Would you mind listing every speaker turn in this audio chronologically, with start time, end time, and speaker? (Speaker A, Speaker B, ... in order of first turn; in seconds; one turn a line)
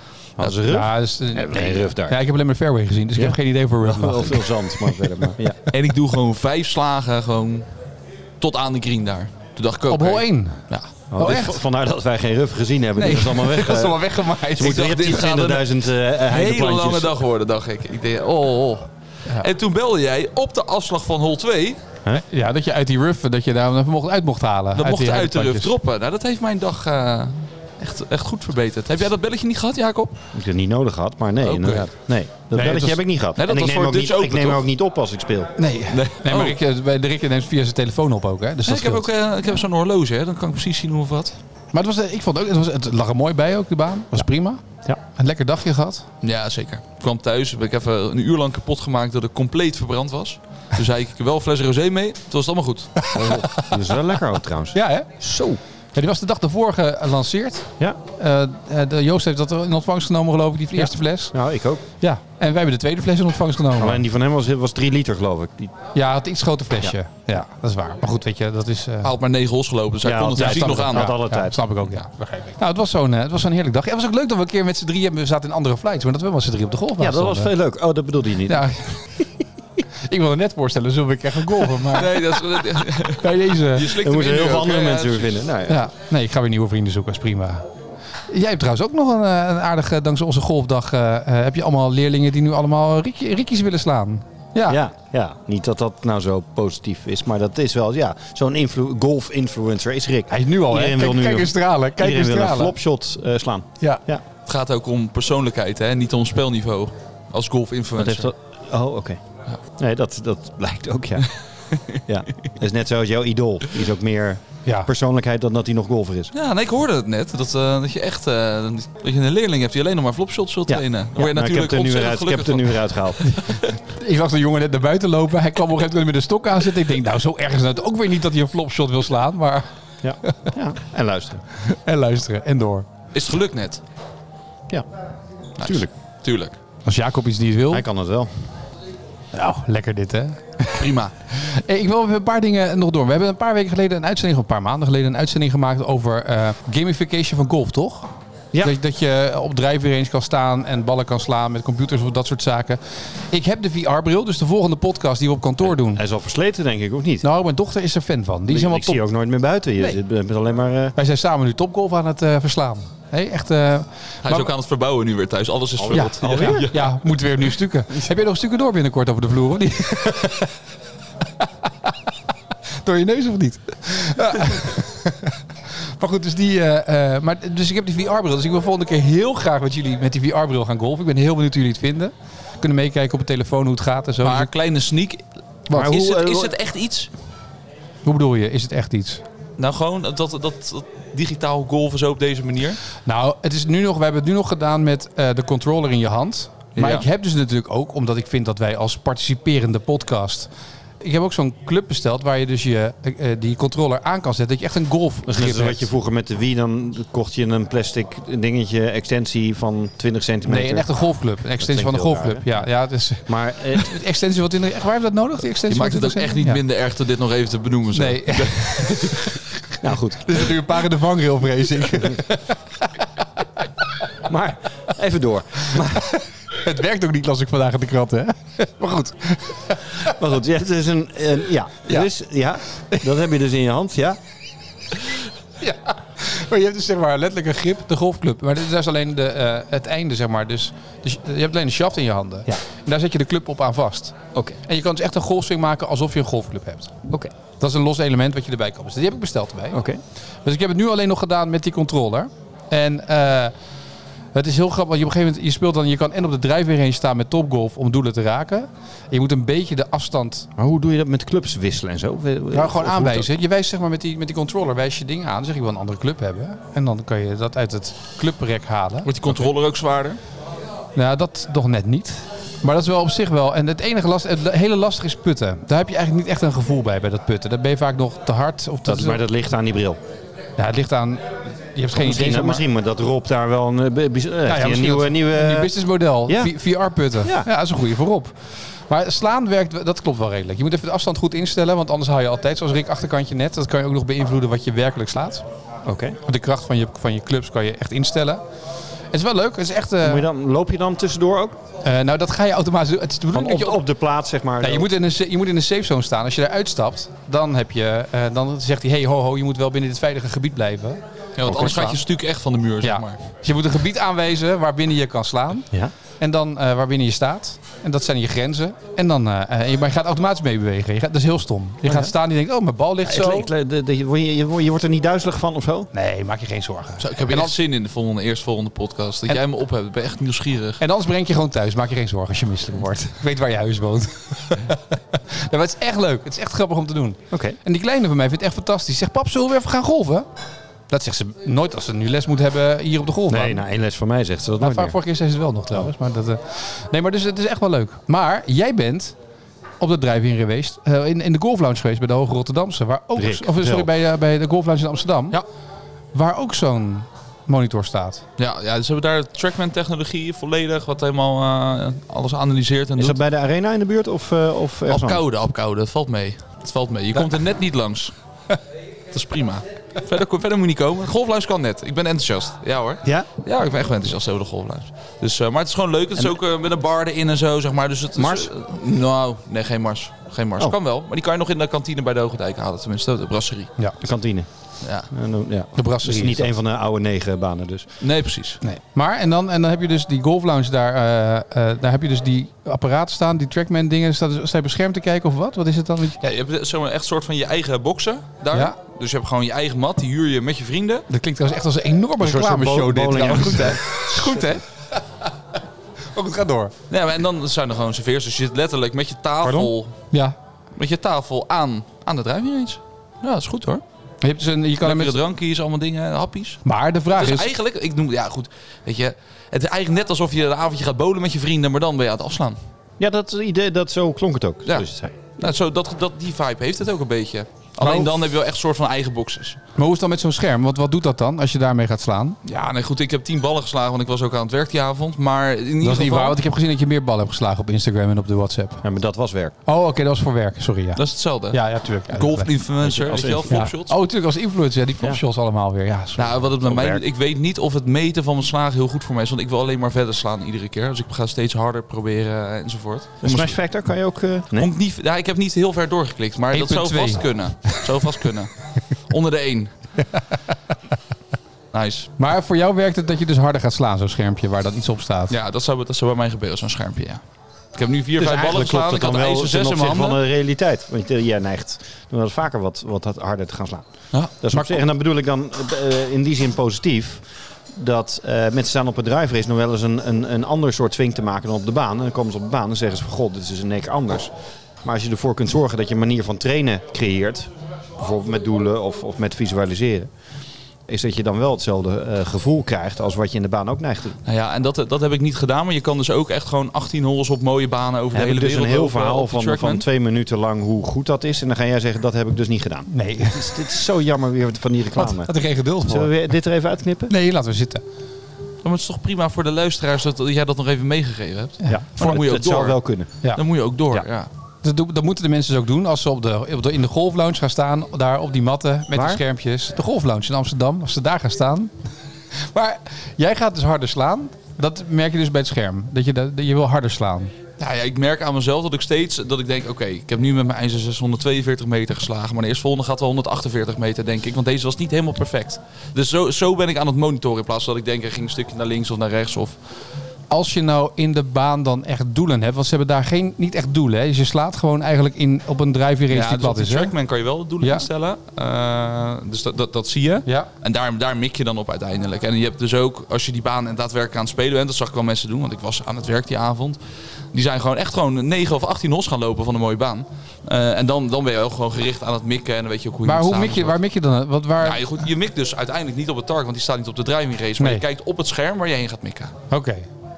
Speaker A: 0.4-2.2
Speaker B: 0.7-5.3
Speaker A: 3.1-5.6
Speaker C: 5.7-7.7
Speaker C: 8.4-10.9
Speaker B: 9.9-11.6
Speaker A: 11.1-17.2
Speaker B: 13.0-15.0
Speaker C: 14.6-21.8
Speaker B: 22.3-25.7
Speaker C: 24.7-30.2
Speaker A: 30.3-35.5
Speaker C: 31.4-31.9
Speaker B: 32.5-33.0
Speaker C: 33.4-34.6
Speaker B: 35.6-39.1
Speaker C: 35.9-36.6
Speaker C: 38.6-41.4
Speaker B: 41.7-44.6
Speaker B: 45.1-46.0
Speaker C: 46.2-53.0
Speaker B: 53.0-53.9
Speaker A: 53.1-55.6
Speaker B: 54.7-55.2
Speaker B: 55.9-61.4
Speaker A: 60.8-61.8
Speaker B: 62.0-64.0
Speaker A: 63.8-65.7
Speaker B: 65.9-69.1
Speaker C: 69.0-71.1
Speaker A: 70.0-71.6
Speaker B: 70.4-77.5
Speaker A: 77.0-78.7
Speaker B: 78.5-79.3
Speaker B: 80.0-84.0
Speaker C: 81.9-85.4
Speaker A: 83.9-85.8
Speaker B: 85.7-87.6
Speaker B: 88.3-94.8
Speaker A: 94.7-104.2
Speaker B: 100.3-102.8
Speaker C: 104.5-108.3
Speaker A: 108.0-109.2
Speaker A: 109.8-111.3
Speaker C: 111.7-112.0
Speaker A: 112.1-116.3
Speaker B: 114.6-114.9
Speaker C: 116.3-123.7
Speaker A: 120.7-123.3
Speaker B: 123.8-129.7
Speaker A: 130.0-131.4
Speaker B: 130.2-130.5
Speaker B: 131.6-132.9
Speaker C: 133.1-133.8
Speaker C: 135.6-136.6
Speaker A: 135.6-135.9
Speaker B: 136.8-137.8
Speaker A: 137.7-138.5
Speaker B: 139.3-148.1
Speaker C: 140.7-141.1
Speaker B: 148.6-156.0
Speaker A: 155.6-157.2
Speaker B: 157.2-159.0
Speaker A: 158.5-160.9
Speaker B: 160.9-164.5
Speaker C: 164.2-166.8
Speaker A: 165.8-166.7
Speaker B: 165.9-170.5
Speaker B: 172.8-175.4
Speaker B: 176.0-184.5
Speaker C: 184.2-187.1
Speaker B: 185.7-185.9
Speaker A: 185.7-186.5
Speaker B: 188.0-189.2
Speaker C: 189.6-192.8
Speaker B: 193.1-200.5
Speaker C: 196.8-197.1
Speaker B: 201.0-205.8
Speaker A: 205.2-210.9
Speaker B: 210.4-216.6
Speaker A: 211.6-212.7
Speaker A: 213.3-214.0
Speaker C: 215.7-219.4
Speaker B: 217.9-222.6
Speaker A: 219.8-220.5
Speaker A: 224.2-226.1
Speaker B: 225.8-230.1
Speaker A: 230.0-234.2
Speaker B: 235.6-244.1
Speaker B: 244.7-246.9
Speaker B: 247.6-249.8
Speaker A: 249.7-250.0
Speaker B: 250.4-253.5
Speaker B: 254.3-260.5
Speaker A: 260.6-263.3
Speaker B: 262.5-269.3
Speaker C: 269.0-270.2
Speaker B: 270.9-279.2
Speaker A: 278.9-280.0
Speaker B: 280.6-282.6
Speaker A: 281.9-285.7
Speaker B: 284.5-288.4
Speaker A: 286.3-286.5
Speaker A: 287.2-287.5
Speaker B: 288.9-295.4
Speaker A: 295.9-296.2
Speaker B: 296.2-298.4
Speaker B: 299.1-300.2
Speaker A: 300.0-301.6
Speaker B: 301.8-303.8
Speaker A: 303.3-304.9
Speaker B: 304.6-312.0
Speaker C: 311.4-313.2
Speaker A: 311.4-311.8
Speaker B: 312.8-315.7
Speaker B: 316.2-323.5
Speaker A: 321.9-322.1
Speaker A: 323.0-325.9
Speaker B: 325.9-327.5
Speaker C: 327.0-330.8
Speaker B: 330.8-340.3
Speaker A: 337.3-337.6
Speaker B: 340.9-343.6
Speaker A: 343.3-345.0
Speaker B: 344.6-349.1
Speaker B: 349.8-355.4
Speaker A: 353.1-353.9
Speaker B: 356.1-358.2
Speaker C: 358.4-363.2
Speaker A: 363.0-365.2
Speaker C: 364.9-368.1
Speaker C: 369.1-383.7
Speaker A: 378.1-378.5
Speaker A: 384.0-384.5
Speaker C: 384.8-385.1
Speaker A: 385.0-387.9
Speaker B: 385.8-386.5
Speaker C: 388.0-388.6
Speaker B: 388.6-396.2
Speaker C: 396.2-401.1
Speaker B: 401.1-404.4
Speaker A: 402.2-404.0
Speaker C: 403.5-404.6
Speaker B: 406.1-406.7
Speaker C: 406.9-409.9
Speaker A: 409.4-409.7
Speaker C: 410.8-413.8
Speaker B: 414.2-415.2
Speaker C: 414.8-416.6
Speaker B: 416.6-417.5
Speaker C: 417.1-422.6
Speaker A: 423.0-425.3
Speaker C: 425.4-429.6
Speaker B: 427.8-428.1
Speaker B: 429.8-432.4
Speaker C: 432.4-436.4
Speaker B: 435.8-438.8
Speaker A: 438.8-439.5
Speaker B: 439.6-442.5
Speaker C: 440.9-443.9
Speaker A: 442.8-443.7
Speaker B: 443.5-446.5
Speaker C: 446.1-453.5
Speaker A: 446.6-447.0
Speaker A: 453.2-454.7
Speaker C: 454.6-459.8
Speaker B: 456.5-458.0
Speaker C: 461.7-462.1
Speaker B: 462.2-465.3
Speaker C: 465.3-467.2
Speaker C: 467.7-470.2
Speaker A: 468.2-484.3
Speaker B: 474.5-474.8
Speaker A: 484.8-490.1
Speaker A: 490.9-494.2
Speaker C: 494.2-499.9
Speaker A: 498.1-505.3
Speaker B: 502.9-503.6
Speaker B: 504.9-506.2
Speaker A: 505.9-507.1
Speaker B: 507.1-507.8
Speaker C: 508.6-514.3
Speaker A: 511.6-513.1
Speaker B: 514.6-521.7
Speaker A: 518.9-519.2
Speaker B: 522.4-527.3
Speaker C: 527.6-539.6
Speaker B: 540.3-546.9
Speaker C: 546.1-556.8
Speaker B: 547.6-547.9
Speaker C: 557.3-563.8
Speaker B: 563.0-565.0
Speaker C: 564.6-569.3
Speaker B: 567.6-567.8
Speaker B: 569.5-569.9